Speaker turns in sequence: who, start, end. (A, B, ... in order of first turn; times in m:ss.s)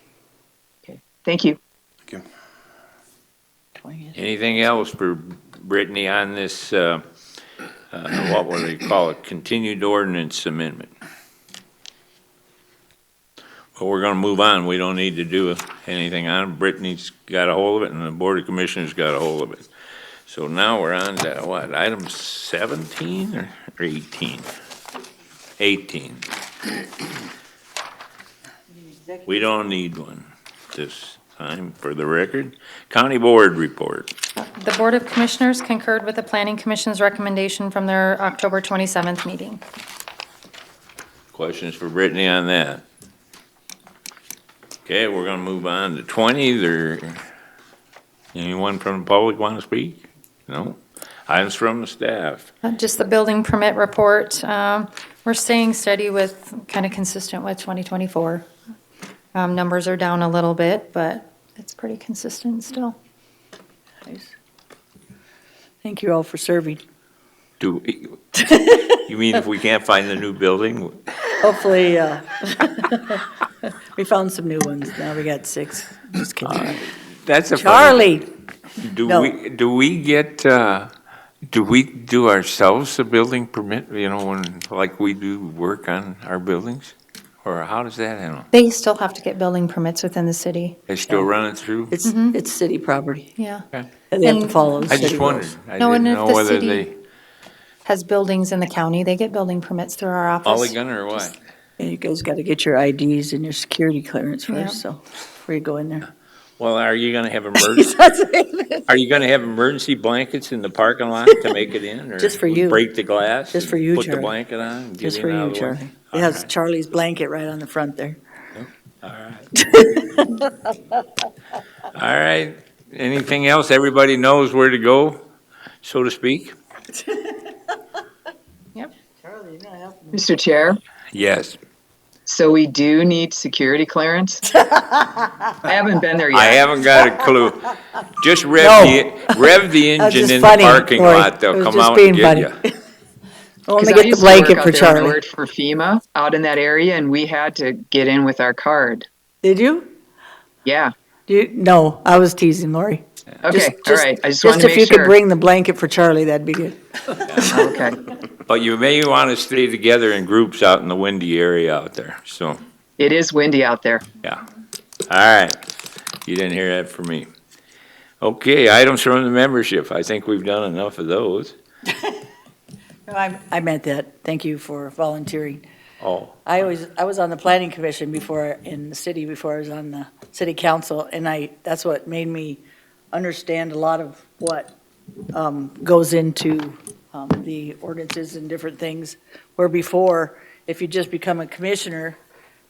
0:00.9-0:01.6 A
0:03.8-0:04.2 B
0:04.2-0:07.0 C
0:07.9-0:10.9 C
0:13.8-0:19.7 C
0:20.3-0:24.5 C
0:25.6-0:26.3 C
0:28.7-0:29.4 B
0:29.3-0:34.1 C
0:34.4-0:39.6 D
0:41.3-0:42.8 C
0:44.9-0:47.2 C
0:48.3-0:52.5 C
0:52.6-0:58.5 D
0:59.3-1:03.0 D
1:04.0-1:04.4 B
1:05.8-1:06.8 B
1:07.6-1:11.4 C
1:08.4-1:09.0 B
1:11.4-1:16.8 B
1:16.4-1:18.3 C
1:17.6-1:18.3 B
1:18.8-1:20.9 C
1:19.0-1:19.4 B
1:21.5-1:28.5 C
1:28.5-1:30.8 D
1:30.9-1:31.9 C
1:31.9-1:33.3 B
1:32.0-1:32.4 D
1:33.4-1:33.7 D
1:34.1-1:35.5 B
1:34.2-1:35.0 D
1:34.9-1:36.9 C
1:35.8-1:36.9 D
1:37.8-1:41.3 D
1:40.4-1:41.4 C
1:41.8-1:46.1 B
1:44.5-1:44.8 D
1:46.6-1:48.0 C
1:47.6-1:49.2 B
1:48.9-1:56.5 C
1:52.2-1:52.9 B
1:53.5-1:54.3 B
1:55.0-1:58.2 B
1:58.6-1:59.6 C
1:59.6-2:01.0 B
2:01.9-2:05.2 C
2:05.8-2:06.5 C
2:07.0-2:07.5 B
2:09.2-2:10.3 B
2:10.1-2:10.8 A
2:11.1-2:11.6 C
2:12.3-2:14.4 A
2:14.5-2:15.6 B
2:15.6-2:16.6 A
2:16.3-2:22.6 C
2:18.6-2:22.7 B
2:23.7-2:25.2 B
2:23.8-2:29.1 A
2:29.4-2:29.9 B
2:30.6-2:30.9 A
2:31.3-2:37.7 B
2:33.4-2:35.2 A
2:37.5-2:38.0 A
2:38.3-2:42.6 C
2:43.0-2:44.0 A
2:45.1-2:45.6 C
2:46.2-2:47.3 C
2:48.2-2:51.6 C
2:51.9-2:52.3 B
2:53.1-2:55.6 B
2:56.0-2:56.4 C
2:56.4-3:04.8 B
3:05.3-3:12.2 B